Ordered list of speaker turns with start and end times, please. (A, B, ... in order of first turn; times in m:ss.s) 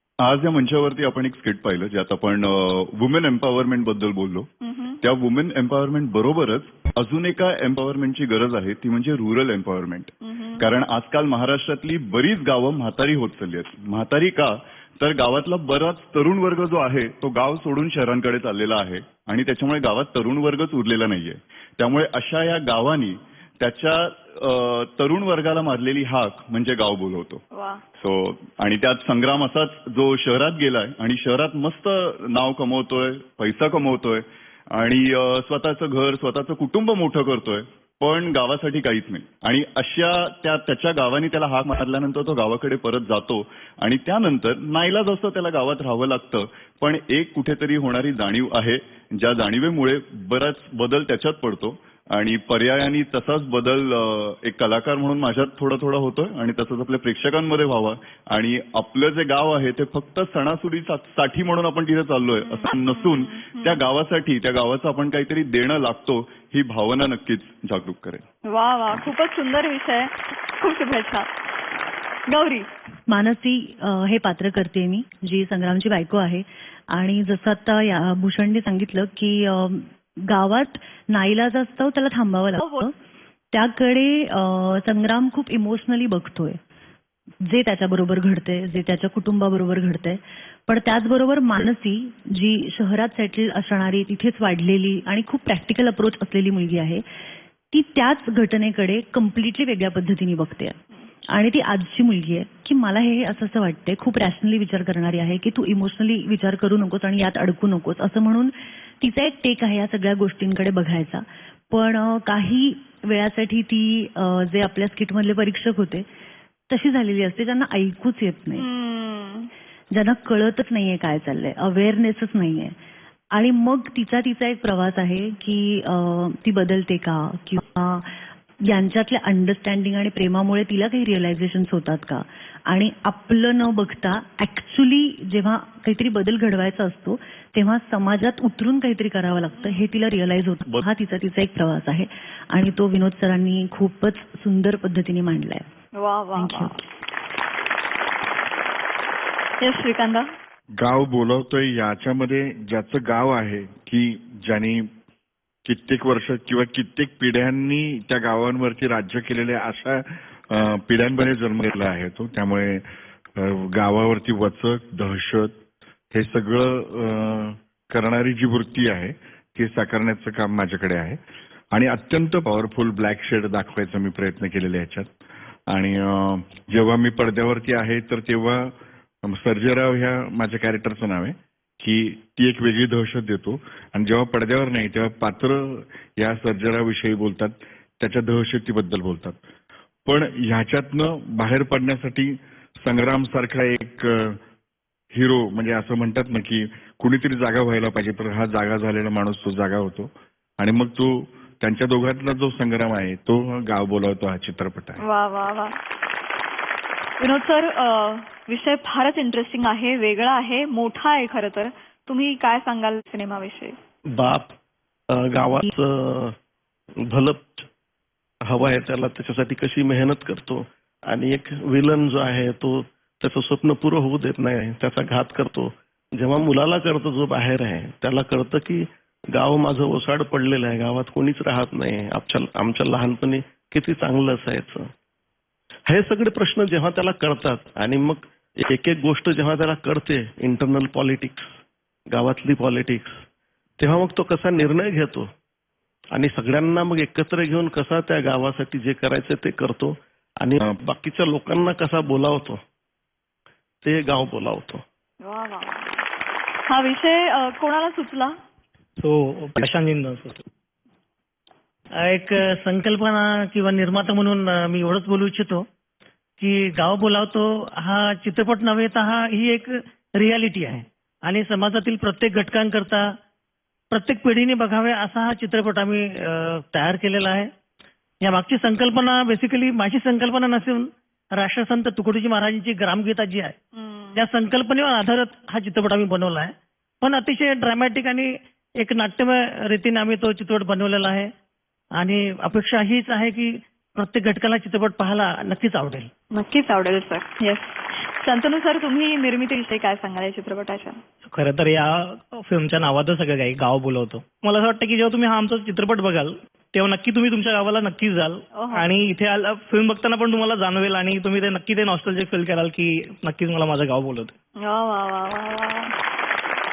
0:00.2-0:04.5 A
0:04.6-0:05.0 B
0:05.0-0:27.4 A
0:10.2-0:10.6 B
0:27.5-0:27.8 B
0:28.0-1:08.2 A
1:02.4-1:03.8 B
1:08.4-1:11.3 B
1:12.3-1:12.7 B
1:13.1-1:22.9 C
1:22.6-1:22.9 B
1:23.5-1:26.6 C
1:27.4-1:37.0 C
1:37.7-1:40.8 C
1:41.3-1:56.0 C
1:56.7-1:58.7 C
1:58.5-1:59.5 B
1:59.9-2:02.7 C
2:03.3-2:25.7 C
2:19.5-2:19.8 B
2:25.9-2:26.8 B
2:26.3-2:26.8 C
2:29.6-2:30.3 B
2:30.8-2:34.9 D
2:35.6-2:45.6 D
2:46.1-2:51.2 D
2:51.7-2:55.1 D
2:55.7-3:09.4 D
3:10.1-3:14.4 D
3:15.1-3:25.0 D
3:25.0-3:25.8 B
3:27.2-3:33.8 B
3:34.1-3:34.5 E
3:35.1-3:36.4 E
3:37.1-3:37.7 E
3:38.4-3:54.9 E
3:55.9-4:01.6 E
4:02.1-4:03.2 E
4:03.8-4:05.3 E
4:06.1-4:12.6 E
4:13.8-4:14.8 E
4:15.2-4:16.0 B
4:16.7-4:18.3 B
4:19.0-4:20.4 F
4:22.0-4:25.6 G
4:26.4-4:33.1 G
4:33.9-4:37.5 G
4:38.2-4:43.6 G
4:43.8-4:44.2 B
4:44.1-4:51.3 G
4:52.0-4:56.1 G
4:56.3-5:01.0 B
5:01.2-5:14.3 F
5:08.5-5:08.8 B
5:14.6-5:15.9 B